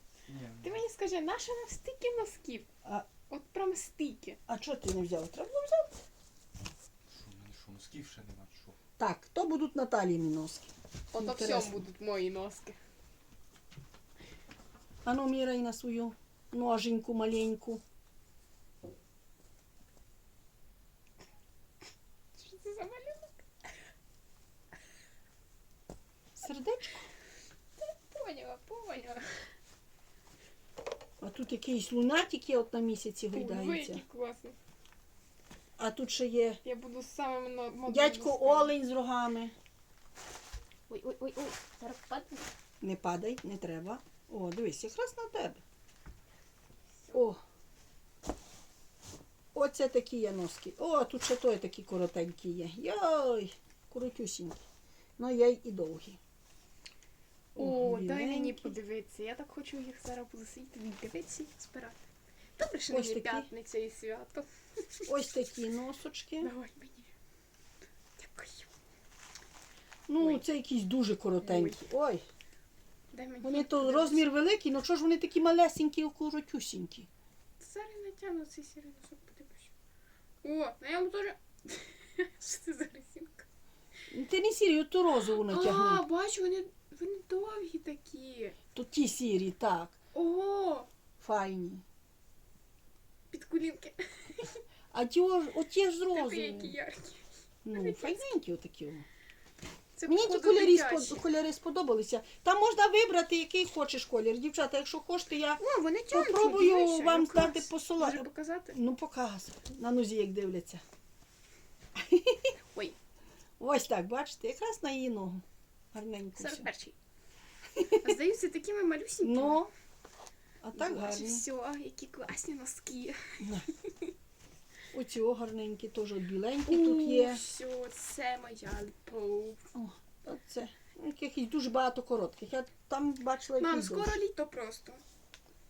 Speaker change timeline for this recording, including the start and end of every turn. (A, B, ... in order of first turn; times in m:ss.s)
0:00.3-0:00.7 A
0:00.6-0:02.7 B
0:03.3-0:04.4 B
0:04.5-0:06.0 C
0:07.1-0:08.7 A
0:09.0-0:11.8 C
0:11.1-0:12.8 B
0:15.0-0:17.8 C
0:22.3-0:23.7 B
0:26.4-0:27.1 C
0:27.8-0:29.5 B
0:31.2-0:34.0 C
0:33.3-0:34.6 B
0:35.8-0:36.6 C
0:36.6-0:38.7 B
0:37.8-0:39.5 C
0:40.9-0:42.5 B
0:42.8-0:45.6 C
0:47.1-0:47.4 C
0:49.5-0:54.6 C
0:55.2-0:56.2 C
0:57.6-0:58.7 C
0:57.6-1:02.0 B
1:02.6-1:05.0 B
1:02.9-1:03.5 C
1:05.1-1:06.5 C
1:06.4-1:07.1 B
1:08.2-1:08.7 B
1:10.1-1:12.2 C
1:10.2-1:10.4 B
1:11.4-1:11.8 B
1:13.1-1:14.3 B
1:13.4-1:17.1 C
1:17.6-1:19.7 B
1:20.4-1:23.4 B
1:24.1-1:26.0 C
1:25.3-1:28.6 B
1:28.7-1:30.0 C
1:30.1-1:30.9 B
1:31.2-1:31.8 C
1:33.3-1:34.6 B
1:34.9-1:36.8 C
1:36.1-1:38.3 B
1:37.6-1:39.0 C
1:39.9-1:41.2 B
1:40.1-1:50.8 C
1:45.6-1:48.8 B
1:52.0-1:52.5 C
1:52.7-1:53.0 B
1:53.6-1:56.7 C
1:56.4-1:57.0 B
1:57.8-1:58.2 C
1:58.0-1:59.6 B
1:59.2-1:59.7 C
2:00.6-2:01.4 C
2:00.7-2:03.4 B
2:03.4-2:03.6 C
2:04.9-2:07.4 C
2:06.6-2:09.7 B
2:09.7-2:14.2 C
2:13.6-2:15.0 B